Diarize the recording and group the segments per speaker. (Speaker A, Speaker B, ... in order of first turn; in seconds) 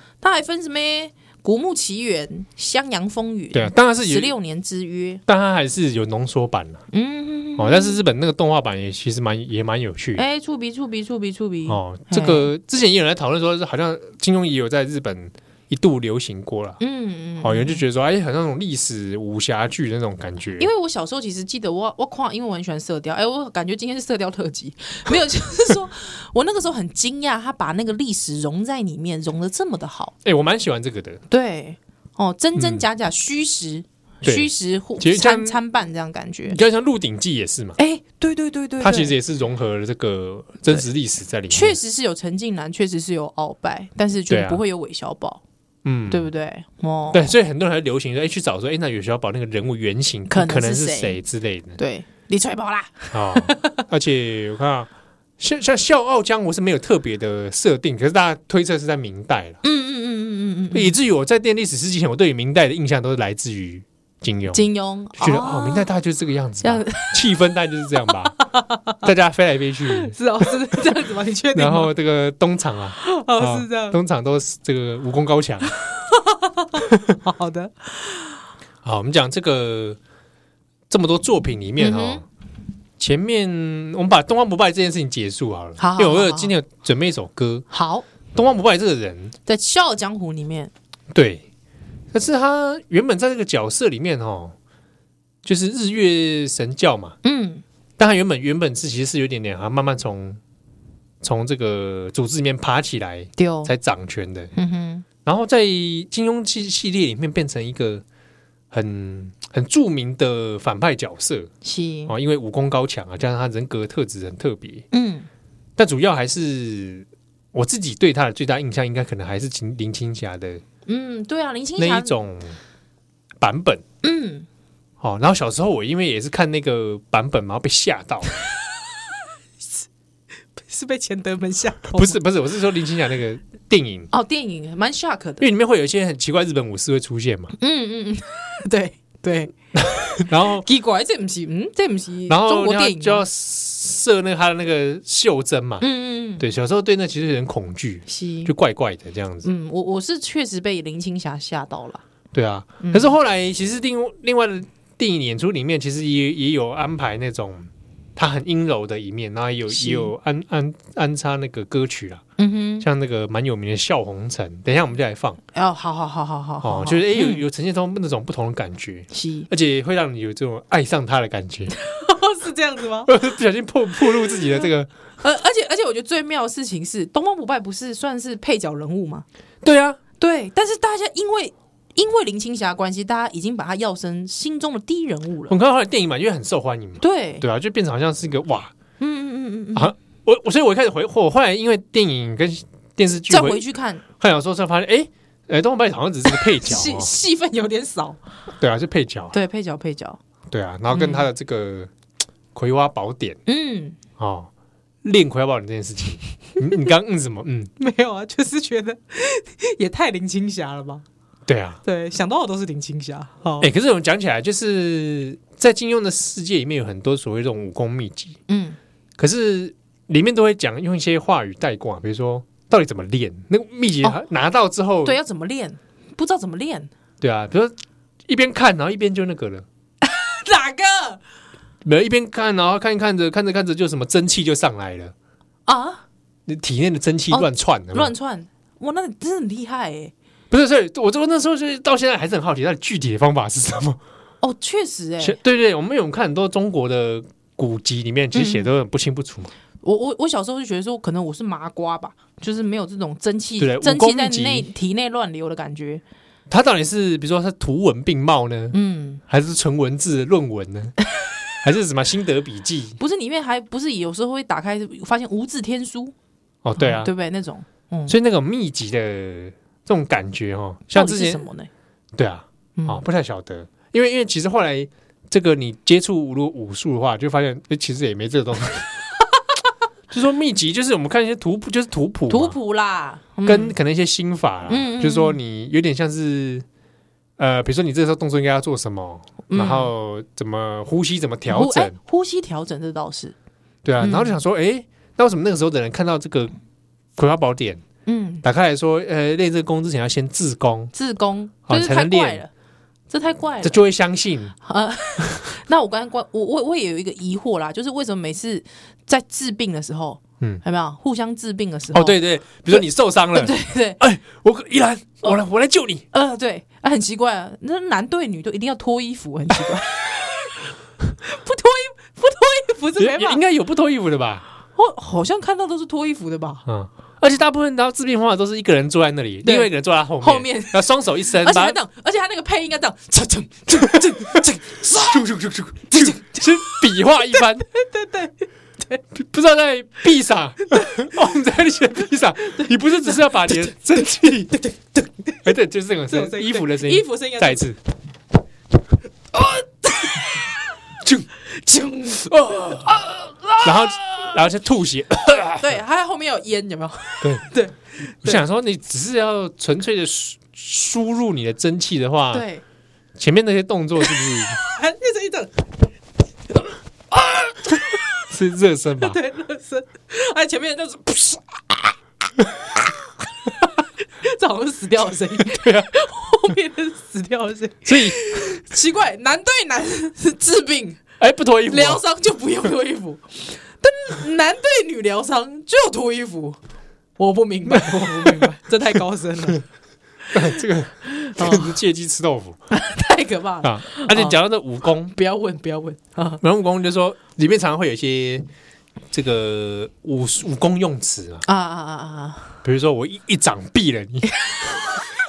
Speaker A: 0.2-5.2, 6.9-8.0, 10.2-12.5, 16.8-17.8, 20.6-30.1, 31.3-36.6, 37.8-39.1, 41.5-45.4, 46.1-47.3, 50.3-51.2, 51.8-53.7, 59.6-61.0, 64.5-65.9, 66.6-67.2, 68.4-69.0, 69.9-71.9, 73.0-74.0, 75.8-78.4, 81.8-82.2, 85.8-86.5, 87.7-88.0, 89.5-90.7, 97.2-97.6, 103.4-103.7, 104.5-105.0, 111.6-112.1, 114.9-115.3, 120.8-122.2, 124.0-124.5, 130.6-132.2, 134.1-135.4, 137.6-139.5, 140.6-143.2, 145.8-146.4, 148.1-148.5, 149.4-152.0, 152.8-153.1, 159.7-160.1, 162.4-162.9, 165.5-167.4, 169.1-169.5, 171.8-173.1, 175.2-179.2, 180.2-185.5, 187.0-187.4, 189.0-189.9, 193.3-194.0, 196.3-198.2, 199.3-200.2, 200.9-201.3, 203.4-204.0, 207.8-211.0, 211.8-213.7, 218.5-218.8, 225.0-226.9, 230.0-231.2, 235.7-236.0, 237.3-240.1, 244.4-245.4, 248.3-248.7, 249.8-256.0, 258.7-259.2, 263.0-266.1, 266.8-268.1, 270.9-271.7, 272.8-273.0, 282.3-283.8, 284.7-285.4, 289.5-289.9, 291.5-293.3, 294.0-294.4, 298.1-298.4, 300.9-302.5, 303.1-303.8, 304.6-312.2, 312.7-314.0, 316.1-320.6, 321.2-323.4, 324.7-326.6, 329.4-335.3, 335.9-339.0, 340.7-341.2, 342.4-345.5, 346.1-347.6, 349.3-350.5, 351.5-354.4, 355.6-358.4, 362.3-362.6, 364.1-365.7, 366.5-368.0, 369.0-371.9, 372.6-372.9, 373.4-381.0, 381.7-386.6, 387.2-389.6, 391.2-391.8, 392.7-394.4, 395.1-396.4, 401.4-402.5
Speaker B: 3.5-4.3, 5.3-6.8, 7.6-10.2, 11.7-16.8, 17.4-20.7, 30.2-31.2, 32.5-32.9, 34.2-35.6, 36.5-37.8, 38.8-41.8, 44.3-44.6, 45.8-46.3, 47.1-51.8, 53.1-54.9, 55.4-59.6, 60.7-64.6, 65.2-68.3, 69.0-70.2, 71.5-75.7, 78.8-80.0, 80.9-82.2, 83.0-87.7, 88.3-89.3, 91.1-91.4, 92.1-94.5, 95.4-97.2, 98.0-100.4, 101.2-104.5, 105.2-108.0, 108.7-111.5, 112.1-114.8, 115.8-120.6, 121.8-122.6, 123.4-123.8, 125.0-128.3, 131.9-134.1, 135.4-137.5, 139.8-140.7, 142.3-145.9, 146.4-149.5, 152.3-162.2, 162.8-165.4, 166.6-171.8, 173.1-174.9, 179.6-180.0, 185.5-188.7, 189.7-193.6, 194.2-197.1, 198.6-199.4, 200.5-201.9, 202.5-203.4, 204.2-204.5, 205.0-207.7, 211.5-211.8, 213.6-218.4, 219.2-225.2, 227.2-227.7, 228.3-229.6, 231.8-235.1, 236.5-238.1, 240.5-244.0, 245.2-249.5, 253.6-254.7, 256.5-258.8, 259.3-261.0, 261.6-263.0, 266.6-267.1, 268.1-271.4, 272.1-278.9, 280.1-282.6, 283.4-286.6, 287.4-291.9, 293.8-296.5, 297.1-297.8, 298.4-300.9, 301.7-302.4, 303.6-304.6, 311.9-316.0, 323.0-324.4, 326.6-331.8, 334.9-337.7, 339.1-344.6, 345.4-347.8, 352.3-352.9, 353.6-355.7, 358.2-362.4, 363.2-364.6, 368.3-369.2, 375.4-375.9, 377.8-378.2, 381.2-382.0, 387.7-388.5, 390.3-392.6, 393.6-395.1, 396.4-398.4, 399.1-401.4, 402.6-404.8